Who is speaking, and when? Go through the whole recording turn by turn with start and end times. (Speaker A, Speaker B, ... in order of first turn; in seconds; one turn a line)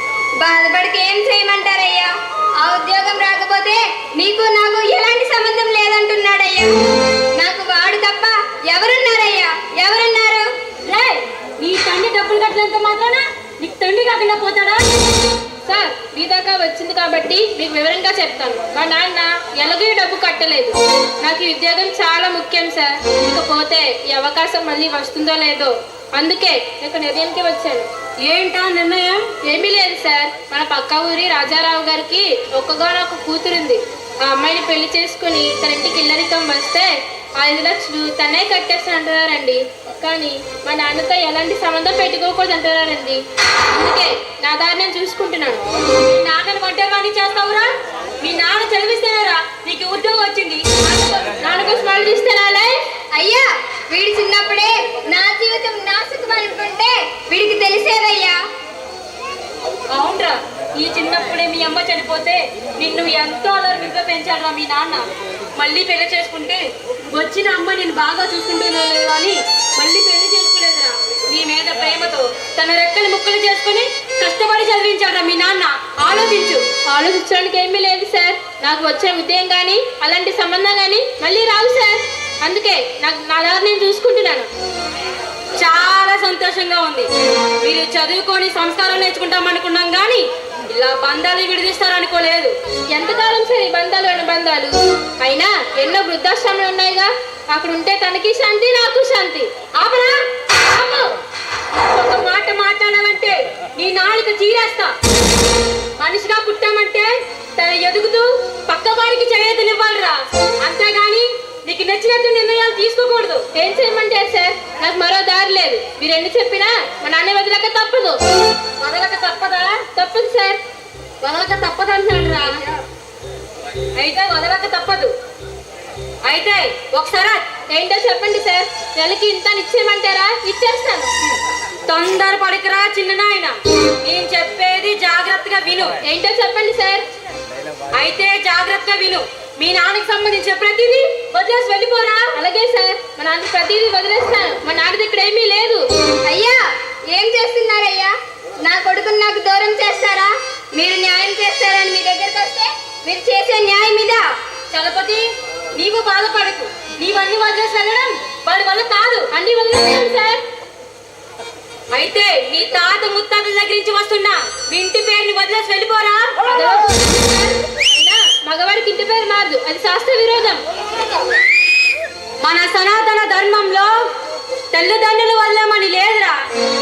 Speaker A: 0.4-6.7
Speaker A: 7.3-10.5
Speaker B: 10.8-14.9
Speaker C: 15.7-27.9
Speaker B: 28.2-29.3
Speaker C: 29.4-45.6
Speaker B: 46.0-50.7
Speaker C: 51.2-52.7
Speaker A: 53.1-58.4
Speaker B: 59.9-76.7
Speaker C: 76.9-84.5
Speaker B: 85.6-87.1
Speaker B: 87.6-92.5
Speaker C: 92.9-99.5
Speaker B: 99.8-101.1
Speaker B: 101.7-105.0
Speaker B: 106.0-113.4
Speaker C: 113.5-118.2
Speaker B: 118.8-119.8
Speaker C: 119.9-120.6
Speaker B: 121.2-122.8
Speaker B: 123.9-125.1
Speaker B: 126.2-127.4
Speaker C: 127.7-131.1
Speaker B: 131.8-135.9
Speaker C: 136.0-137.0
Speaker B: 137.9-142.3
Speaker C: 142.3-145.9
Speaker A: 146.2-154.3
Speaker B: 154.7-159.3
Speaker C: 159.3-160.4
Speaker B: 161.9-166.3
Speaker C: 166.5-170.6
Speaker B: 172.4-174.1
Speaker B: 174.7-176.4